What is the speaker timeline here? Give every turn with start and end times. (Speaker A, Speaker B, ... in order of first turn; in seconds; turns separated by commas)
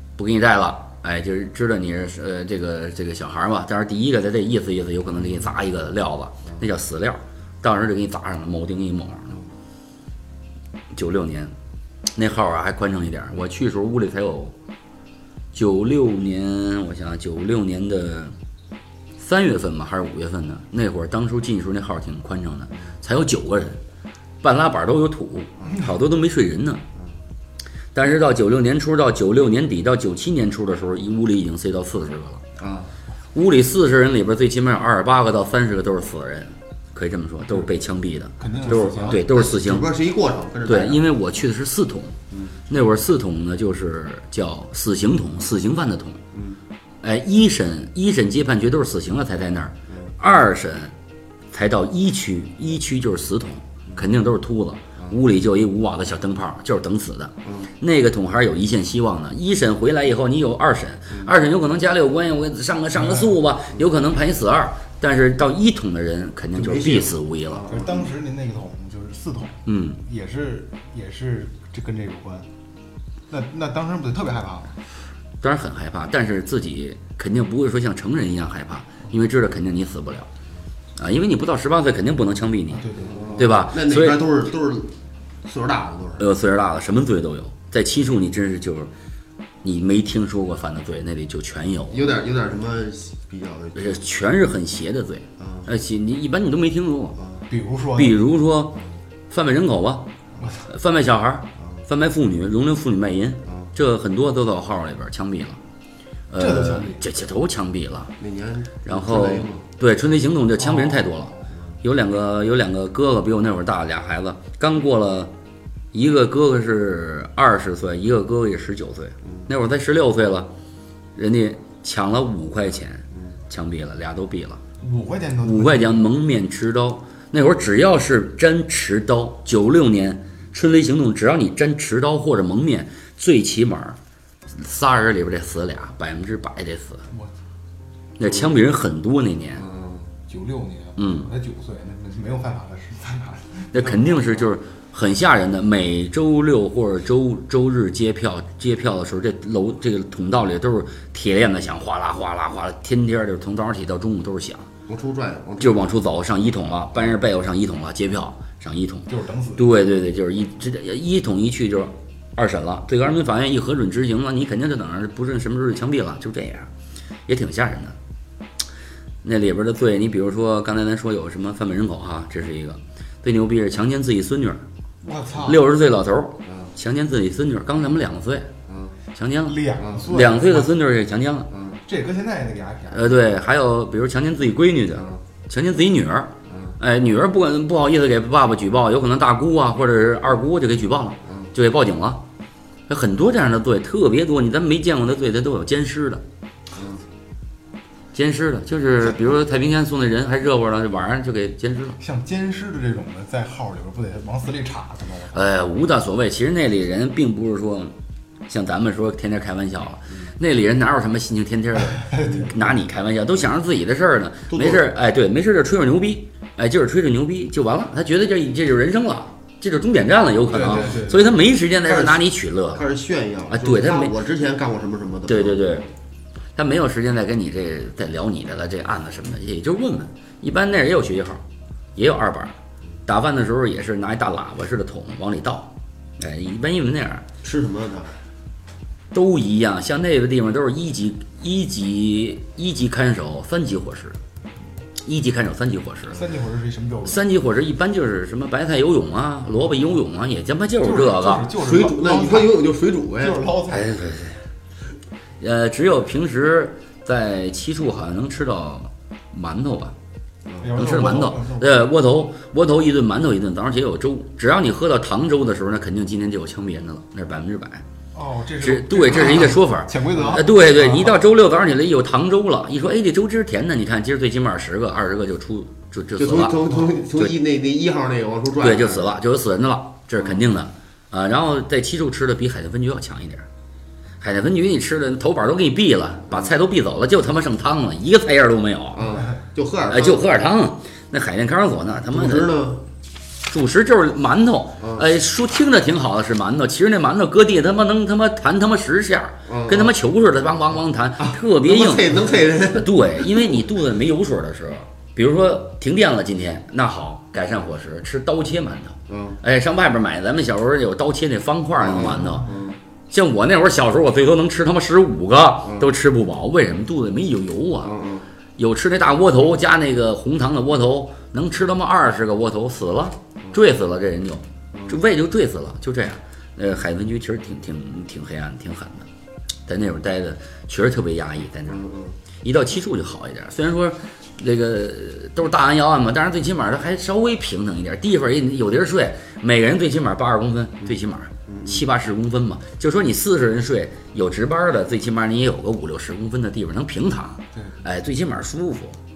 Speaker A: 0.2-9.4, Speaker A: 10.9-11.5, Speaker A: 12.1-14.5, Speaker A: 15.5-18.4, Speaker A: 19.2-23.8, Speaker A: 24.4-26.8, Speaker A: 27.9-32.4, Speaker B: 32.6-32.9, Speaker A: 33.3-39.9, Speaker C: 38.4-39.3, Speaker B: 38.8-41.0, Speaker A: 40.7-42.2, Speaker A: 42.7-46.2, Speaker B: 46.3-46.6, Speaker A: 47.0-50.9, Speaker A: 51.5-67.7, Speaker C: 63.0-63.4, Speaker B: 66.6-68.1, Speaker C: 67.7-72.5, Speaker A: 69.7-70.0, Speaker C: 73.3-74.8, Speaker A: 75.4-80.3, Speaker A: 81.0-84.2, Speaker C: 82.7-83.5, Speaker B: 83.0-84.9, Speaker B: 85.5-86.2, Speaker A: 86.2-88.9, Speaker A: 89.6-92.0, Speaker B: 91.9-94.0, Speaker A: 93.8-97.2, Speaker B: 95.4-95.7, Speaker B: 97.2-97.5, Speaker C: 97.5-98.3, Speaker A: 98.0-100.1, Speaker C: 100.4-100.7, Speaker A: 100.7-105.6, Speaker B: 101.6-101.8, Speaker B: 103.5-103.7, Speaker A: 106.3-108.1, Speaker C: 106.3-107.0, Speaker B: 108.2-109.7, Speaker A: 108.8-115.3, Speaker C: 110.6-111.0, Speaker B: 111.4-111.8, Speaker A: 115.9-120.5, Speaker A: 121.2-124.6, Speaker C: 124.8-126.1, Speaker A: 125.4-134.0, Speaker A: 134.5-137.0, Speaker A: 138.2-139.7, Speaker B: 138.2-138.6, Speaker B: 139.6-140.1, Speaker C: 140.3-144.5, Speaker A: 141.0-141.3, Speaker A: 143.7-154.7, Speaker B: 154.9-155.9, Speaker A: 155.6-166.7, Speaker C: 159.1-159.7, Speaker A: 167.3-168.0, Speaker A: 169.2-174.6, Speaker C: 175.0-175.7, Speaker A: 175.4-178.5, Speaker B: 176.4-176.7, Speaker B: 178.7-178.9, Speaker A: 179.2-181.5, Speaker C: 179.4-180.7, Speaker B: 179.8-180.1, Speaker B: 181.5-181.8, Speaker C: 181.8-183.3, Speaker A: 182.9-192.2, Speaker B: 184.9-185.2, Speaker B: 186.5-186.8, Speaker B: 191.2-191.5, Speaker A: 192.9-196.2, Speaker B: 196.7-197.0, Speaker A: 198.1-202.0, Speaker C: 202.0-205.5, Speaker A: 205.3-207.9, Speaker A: 208.5-222.9, Speaker C: 212.0-212.8, Speaker B: 214.5-214.8, Speaker C: 220.5-221.3, Speaker B: 221.8-225.9, Speaker A: 223.5-224.2, Speaker A: 225.3-225.8, Speaker A: 226.6-231.4, Speaker A: 232.0-237.3, Speaker B: 237.4-238.2, Speaker A: 239.1-244.2, Speaker A: 245.0-246.2, Speaker C: 246.1-247.2, Speaker A: 247.1-251.5, Speaker C: 250.8-252.7, Speaker B: 251.5-253.4, Speaker C: 253.2-254.0, Speaker A: 253.7-254.4, Speaker A: 255.4-259.9, Speaker B: 260.5-260.7, Speaker C: 260.6-261.9, Speaker A: 260.8-267.8, Speaker C: 268.1-271.2, Speaker A: 268.6-277.4, Speaker B: 270.1-270.4, Speaker B: 276.2-279.1, Speaker A: 278.6-283.5, Speaker A: 284.2-289.2, Speaker B: 288.9-290.5, Speaker A: 289.9-292.6, Speaker B: 292.1-292.8, Speaker A: 293.5-312.5, Speaker B: 294.8-295.1, Speaker B: 299.5-299.9, Speaker B: 301.2-303.5, Speaker B: 309.1-309.4, Speaker B: 311.8-312.8, Speaker C: 312.1-312.6, Speaker A: 313.1-317.9, Speaker B: 315.6-315.9, Speaker B: 317.8-318.3, Speaker A: 318.6-329.1, Speaker A: 329.7-331.8, Speaker B: 331.7-332.2, Speaker A: 332.4-349.0, Speaker B: 341.5-341.8